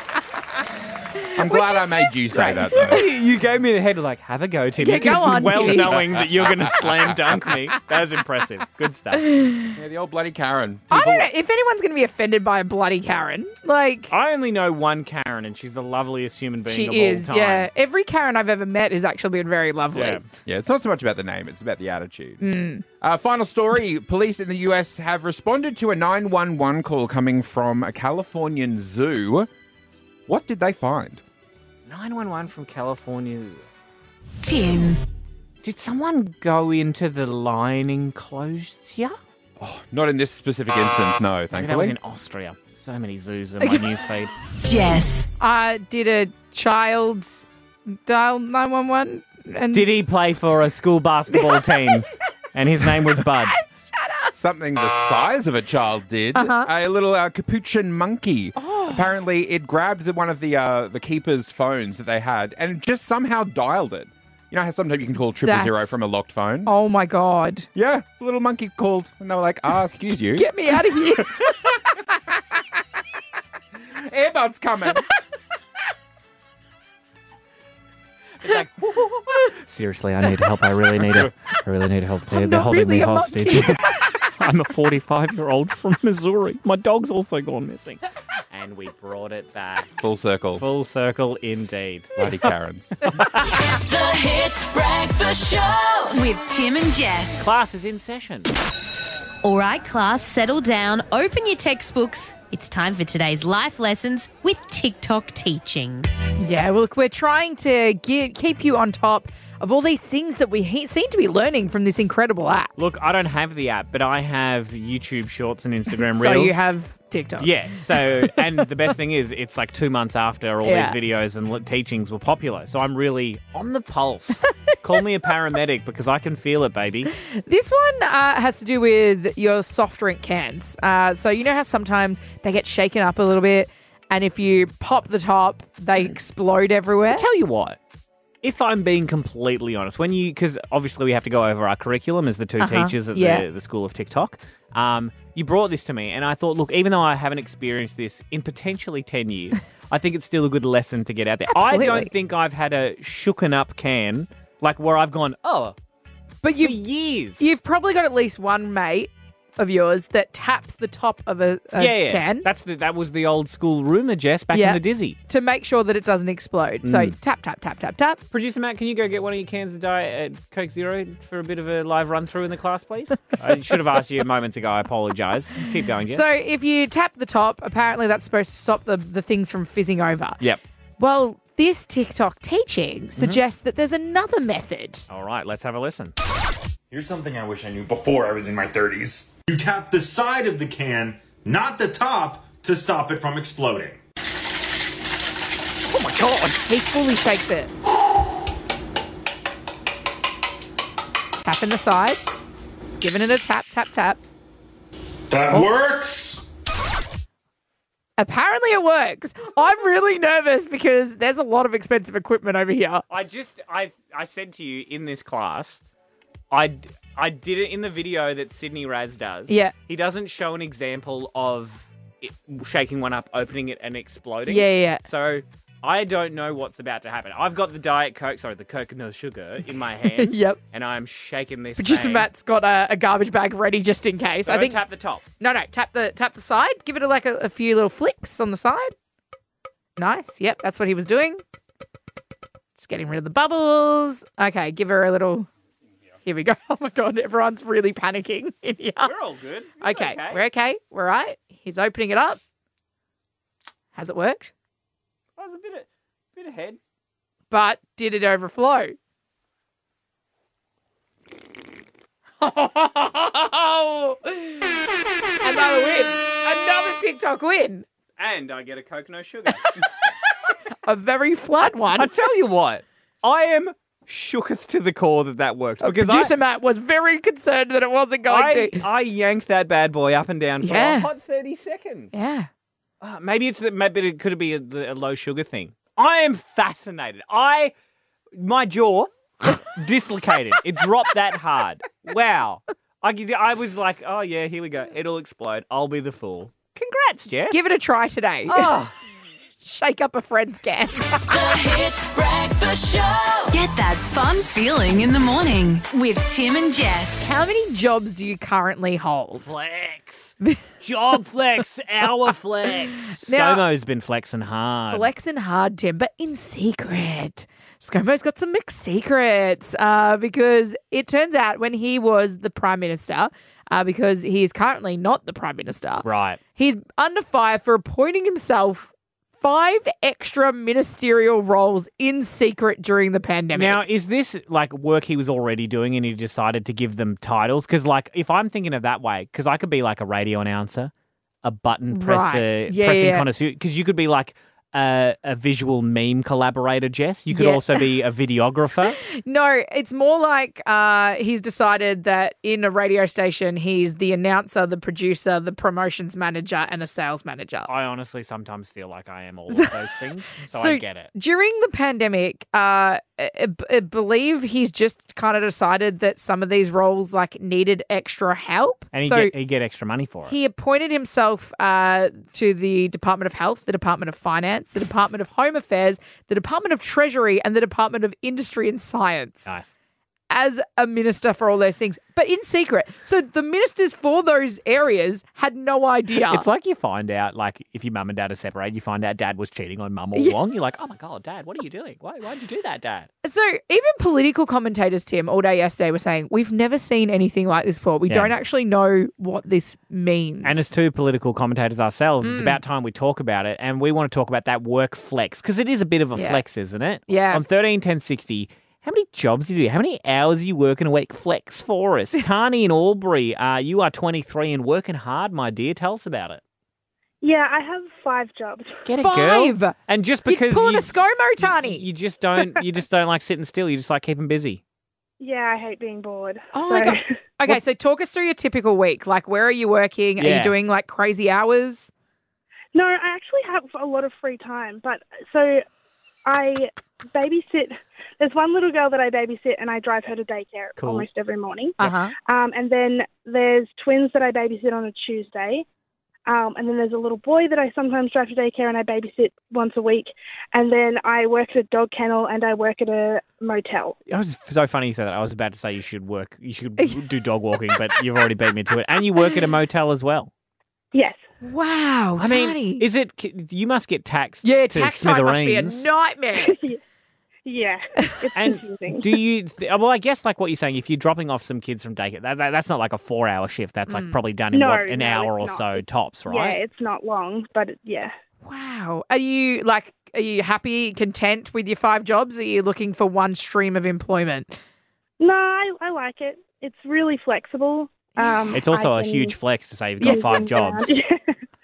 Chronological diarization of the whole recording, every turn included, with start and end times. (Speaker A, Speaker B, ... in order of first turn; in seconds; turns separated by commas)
Speaker A: 1.4-3.1, Speaker B: 1.4-3.0, Speaker C: 2.9-9.3, Speaker B: 4.8-6.0, Speaker A: 5.7-7.2, Speaker B: 9.2-9.7, Speaker A: 9.8-11.3, Speaker B: 10.9-14.1, Speaker C: 14.1-17.7, Speaker B: 16.7-20.2, Speaker C: 19.9-20.2, Speaker A: 20.4-22.4, Speaker B: 22.4-22.9, Speaker A: 23.0-29.5, Speaker A: 30.3-31.2, Speaker C: 31.9-33.6, Speaker D: 34.4-35.0, Speaker C: 35.6-39.2, Speaker A: 39.6-42.0, Speaker C: 41.5-44.3, Speaker B: 43.6-43.9, Speaker D: 44.6-45.3, Speaker B: 45.4-49.9, Speaker C: 49.7-53.5, Speaker B: 51.3-52.0, Speaker B: 52.8-54.3, Speaker A: 54.3-66.7, Speaker B: 56.4-56.7, Speaker B: 58.6-59.1, Speaker B: 65.4-66.0, Speaker B: 66.7-67.7, Speaker A: 67.8-71.5, Speaker B: 70.4-71.5, Speaker A: 73.9-75.1, Speaker C: 78.4-83.8, Speaker B: 82.3-84.1, Speaker C: 84.4-89.9, Speaker A: 90.0-90.6, Speaker C: 90.6-92.5, Speaker A: 92.2-93.0, Speaker C: 93.0-93.6, Speaker D: 93.7-97.5, Speaker C: 97.3-98.5, Speaker E: 99.4-106.3, Speaker B: 106.4-112.7, Speaker C: 112.8-116.6, Speaker B: 116.0-118.7, Speaker C: 117.4-127.1, Speaker B: 120.6-121.0, Speaker B: 127.2-137.3, Speaker C: 137.1-137.8, Speaker C: 138.4-155.8, Speaker B: 142.6-143.5, Speaker B: 151.5-152.1, Speaker B: 156.4-156.8, Speaker C: 156.6-157.5, Speaker B: 157.4-162.5, Speaker C: 161.8-165.2, Speaker B: 164.5-168.2, Speaker C: 166.8-167.1, Speaker C: 168.3-176.2, Speaker B: 176.1-180.4, Speaker B: 181.0-185.0, Speaker C: 185.1-186.1, Speaker F: 186.9-194.0, Speaker C: 195.9-196.6, Speaker B: 196.7-197.7, Speaker B: 201.4-202.2, Speaker B: 202.9-204.2, Speaker F: 205.3-206.5, Speaker B: 208.2-213.0, Speaker C: 213.1-215.8, Speaker C: 216.5-232.3, Speaker B: 219.5-219.7, Speaker B: 224.5-225.0, Speaker B: 230.1-230.6, Speaker B: 231.8-234.8, Speaker C: 234.4-235.2, Speaker B: 235.4-238.9, Speaker B: 240.0-241.4, Speaker B: 242.8-245.5, Speaker B: 246.2-249.1, Speaker C: 249.0-250.4, Speaker B: 249.8-252.4, Speaker B: 253.9-254.5, Speaker C: 255.4-256.8, Speaker B: 257.5-259.0, Speaker B: 262.4-264.8, Speaker B: 265.4-267.9, Speaker C: 268.2-269.7, Speaker B: 270.8-272.1, Speaker C: 272.0-276.3, Speaker B: 275.8-278.8, Speaker C: 278.3-282.1, Speaker B: 280.6-281.1, Speaker B: 282.1-282.5, Speaker C: 283.0-287.7, Speaker C: 288.4-297.7, Speaker B: 297.5-298.7, Speaker C: 298.5-298.9, Speaker B: 299.6-301.2, Speaker D: 301.3-307.3, Speaker B: 307.2-309.5, Speaker C: 309.4-315.1, Speaker B: 313.2-313.6, Speaker B: 314.9-333.8, Speaker C: 326.0-326.4, Speaker C: 333.5-340.9, Speaker C: 341.4-349.0, Speaker B: 341.9-343.3, Speaker B: 347.3-347.7, Speaker B: 349.0-357.7, Speaker C: 357.7-361.1, Speaker B: 360.4-369.3, Speaker C: 368.9-370.3, Speaker B: 370.3-379.5, Speaker C: 379.5-379.7, Speaker B: 380.3-386.4, Speaker C: 386.3-393.1, Speaker B: 393.2-400.6, Speaker C: 398.1-398.3, Speaker C: 400.4-416.4, Speaker B: 402.2-402.6, Speaker B: 406.1-406.4, Speaker B: 407.1-407.4, Speaker G: 417.2-418.8, Speaker C: 418.9-424.6, Speaker B: 419.0-419.8, Speaker B: 420.3-421.9, Speaker G: 425.2-427.2, Speaker B: 426.5-431.9, Speaker C: 430.2-430.6, Speaker G: 432.8-435.6, Speaker G: 436.3-445.7, Speaker C: 440.8-441.1, Speaker B: 441.8-442.1, Speaker G: 446.3-454.0, Speaker C: 454.1-460.3, Speaker G: 460.9-461.2, Speaker B: 461.4-462.8, Speaker C: 462.2-465.9, Speaker B: 464.4-466.6, Speaker G: 466.4-466.8, Speaker G: 467.4-469.1, Speaker C: 468.4-476.6, Speaker B: 473.9-474.2, Speaker G: 474.5-478.1, Speaker B: 478.4-484.6, Speaker G: 485.2-489.4, Speaker C: 488.5-491.0, Speaker B: 490.0-490.3, Speaker G: 490.0-491.2